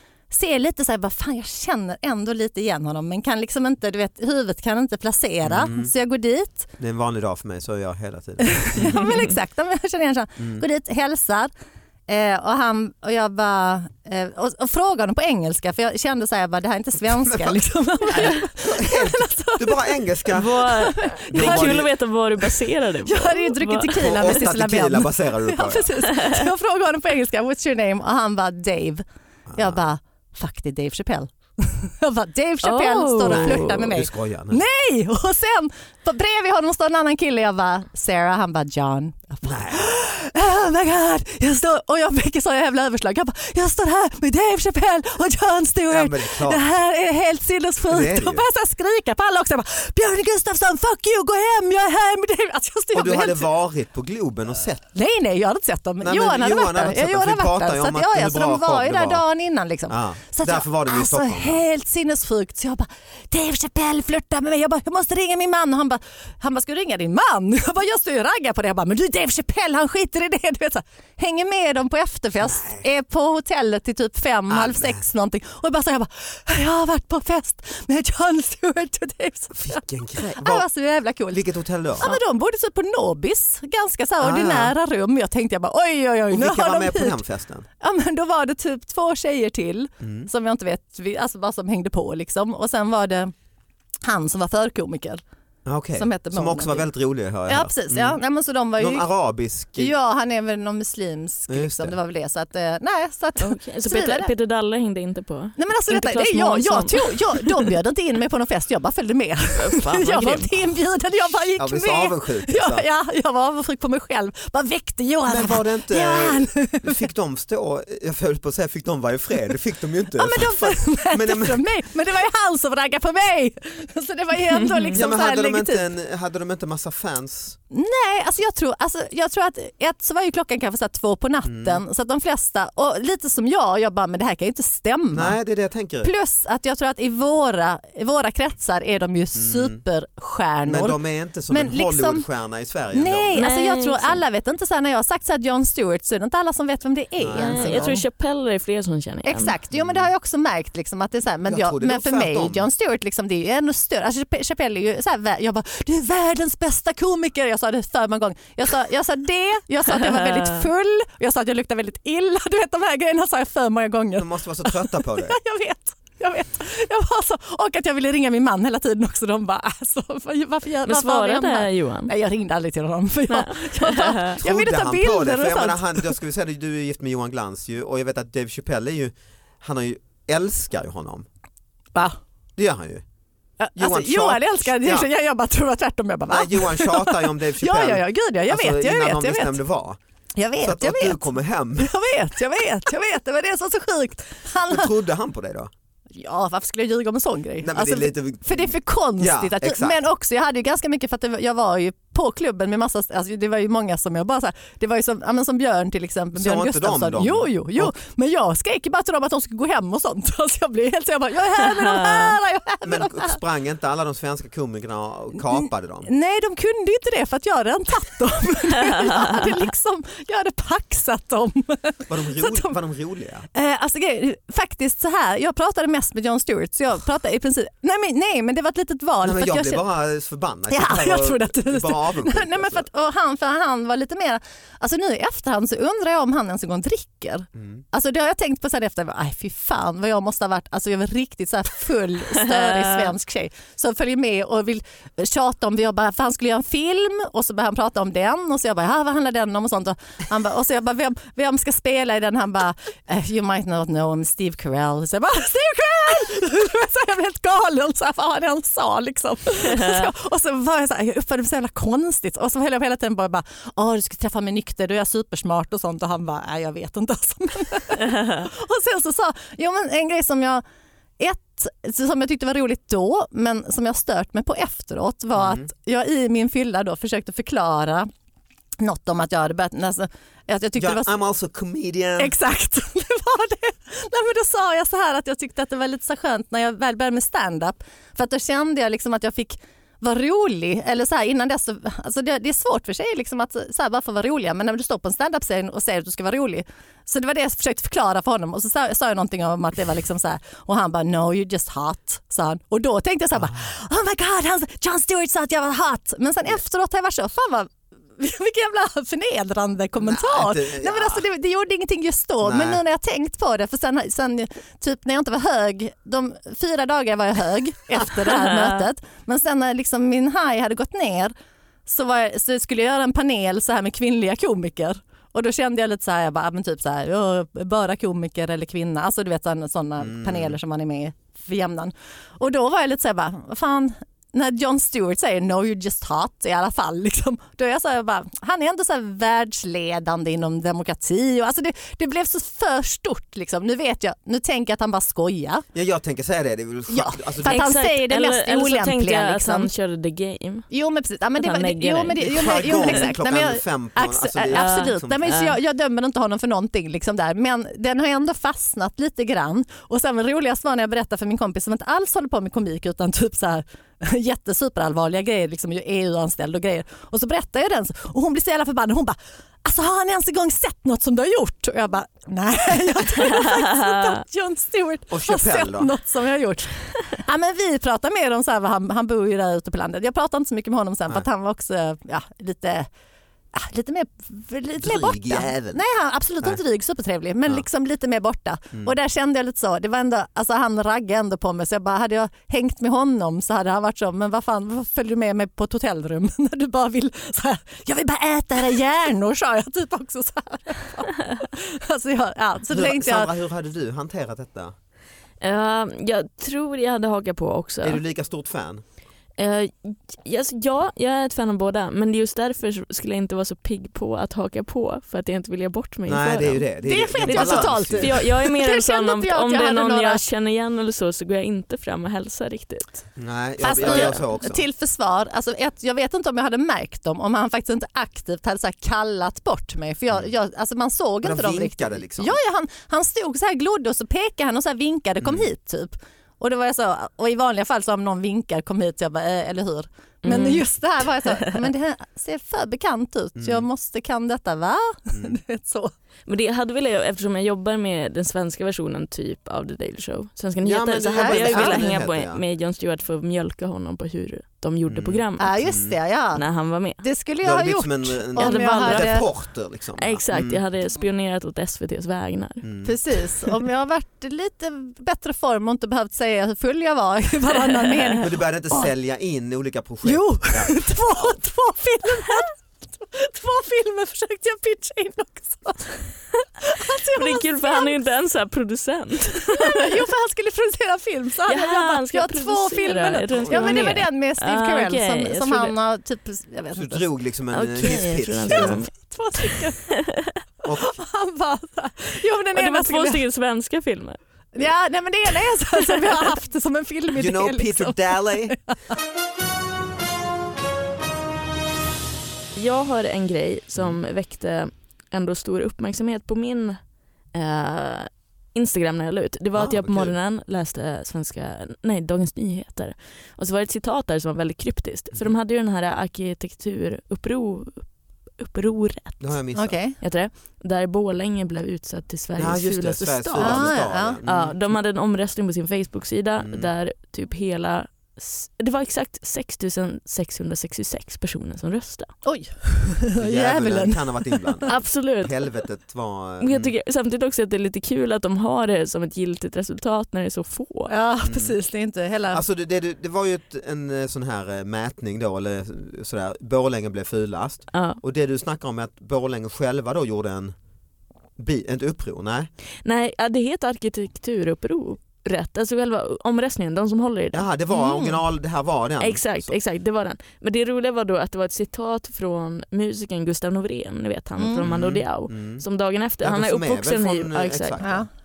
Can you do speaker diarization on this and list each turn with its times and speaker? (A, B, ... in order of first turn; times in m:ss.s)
0:00.3-0:06.7 A
0:05.4-0:05.9 B
0:06.8-0:09.3 B
0:08.4-0:11.5 A
0:10.4-0:10.6 B
0:12.1-0:21.8 A
0:17.3-0:20.7 B
0:20.3-0:24.3 C
0:21.3-0:21.9 B
0:23.0-0:29.0 A
0:24.0-0:25.9 B
0:26.1-0:26.5 C
0:29.5-0:29.8 B
0:29.6-0:53.5 A
0:32.6-0:33.9 C
0:33.3-0:34.6 B
0:39.4-0:39.9 B
0:45.9-0:46.6 B
0:47.9-0:48.4 B
0:52.9-0:54.8 B
0:54.9-1:21.4 A
0:56.0-0:59.2 B
0:59.9-1:01.6 B
1:12.4-1:12.8 B
1:14.5-1:15.0 B
1:19.5-1:20.7 B
1:21.3-1:22.2 B
1:22.0-1:27.2 A
1:24.2-1:24.7 B
1:26.3-1:27.7 B
1:27.8-1:33.3 A
1:30.0-1:30.3 B
1:34.0-1:35.2 A
1:35.6-1:38.2 B
1:36.0-1:36.9 A
1:37.5-1:39.1 A
1:38.8-1:39.9 B
1:39.8-1:44.3 A
1:41.5-1:42.0 B
1:43.4-1:47.7 C
1:45.6-1:57.0 A
1:49.6-1:50.5 C
1:51.6-1:52.9 B
1:55.3-2:01.6 B
2:00.2-2:05.9 A
2:04.9-2:07.6 B
2:07.7-2:15.4 A
2:11.4-2:11.8 B
2:15.1-2:16.1 B
2:16.0-2:21.0 A
2:19.4-2:19.8 B
2:20.7-2:23.4 B
2:21.5-2:22.3 A
2:22.9-2:28.0 A
2:23.4-2:24.2 C
2:27.2-2:28.0 B
2:27.4-2:29.6 C
2:29.2-2:56.2 A
2:29.7-2:30.1 B
2:31.5-2:32.6 B
2:44.2-2:45.4 B
2:50.8-2:52.1 C
2:53.3-2:54.4 C
2:54.4-3:01.3 B
3:02.6-3:03.0 B
3:03.6-3:09.6 A
3:03.8-3:05.1 B
3:06.3-3:10.0 B
3:10.4-3:14.9 A
3:10.6-3:11.9 B
3:14.7-3:15.7 B
3:16.1-3:33.4 A
3:17.6-3:20.0 B
3:26.4-3:27.9 B
3:32.0-3:32.2 C
3:32.8-3:36.1 B
3:35.5-3:42.8 A
3:42.1-3:43.5 B
3:43.5-3:49.8 A
3:49.2-3:52.9 B
3:50.7-4:30.6 A
3:57.6-3:57.8 B
4:02.6-4:03.1 C
4:19.8-4:20.0 C
4:31.2-4:38.1 A
4:35.4-4:35.7 B
4:38.8-4:41.1 A
4:40.8-4:42.3 B
4:42.2-5:21.3 A
5:10.0-5:11.2 B
5:12.4-5:12.8 B
5:18.3-5:18.8 C
5:21.9-5:45.7 A
5:30.0-5:30.6 B
5:45.7-5:47.7 B
5:46.9-5:49.7 A
5:47.5-5:50.7 C
5:50.7-6:22.9 A
5:51.4-5:53.1 C
5:52.2-5:55.4 B
5:54.5-5:55.6 C
6:13.2-6:14.2 C
6:15.1-6:15.9 B
6:23.5-6:43.3 A
6:24.8-6:25.8 B
6:42.7-6:44.7 B
6:45.4-6:48.0 C
6:47.8-6:48.8 B
6:49.4-6:56.7 C
6:56.1-6:58.2 B
6:56.8-7:00.2 A
6:57.2-7:03.1 C
7:03.2-7:04.6 B
7:03.6-7:25.9 A
7:03.7-7:04.2 C
7:11.2-7:12.4 B
7:20.2-7:20.6 C
7:21.2-7:21.6 C
7:23.4-7:23.6 B
7:25.1-7:25.4 B
7:26.3-7:35.6 C
7:30.6-7:32.4 B
7:31.1-7:31.9 A
7:34.9-7:35.9 B
7:35.4-7:36.4 A
7:36.4-7:37.0 C
7:37.0-7:39.3 A
7:37.4-7:40.6 B
7:38.4-7:39.4 C
7:40.0-7:42.7 C
7:42.6-7:43.0 B
7:42.8-7:48.9 A
7:47.7-7:48.2 C
7:48.2-7:51.3 B
7:50.0-7:58.0 A
7:57.0-8:00.0 C
7:59.4-8:07.1 A
8:01.5-8:05.8 C
8:03.4-8:04.0 B
8:06.7-8:08.8 B
8:07.5-8:10.3 C
8:08.5-8:10.0 A
8:10.6-8:11.0 B
8:10.9-8:13.2 A
8:12.6-8:14.2 C
8:14.5-8:18.8 A
8:17.2-8:18.6 B
8:22.6-8:26.8 C
8:27.3-8:39.3 C
8:29.6-8:30.1 B
8:39.2-8:39.8 B
8:39.6-8:40.0 A
8:40.0-8:52.1 C
8:42.4-8:44.7 B
8:43.4-8:44.2 A
8:46.4-8:46.7 B
8:52.2-8:54.7 A
8:53.2-8:56.7 B
8:54.7-8:55.5 C
8:56.4-9:00.9 C
9:00.9-9:02.4 A
9:01.2-9:01.6 B
9:02.3-9:10.6 B
9:07.7-9:08.0 C
9:11.4-9:12.5 B
9:12.8-9:17.4 C
9:17.3-9:19.5 B
9:17.7-9:18.2 A
9:19.0-9:27.8 C
9:24.4-9:24.7 A
9:24.6-9:25.6 B
9:26.2-9:28.1 B
9:27.8-9:28.1 A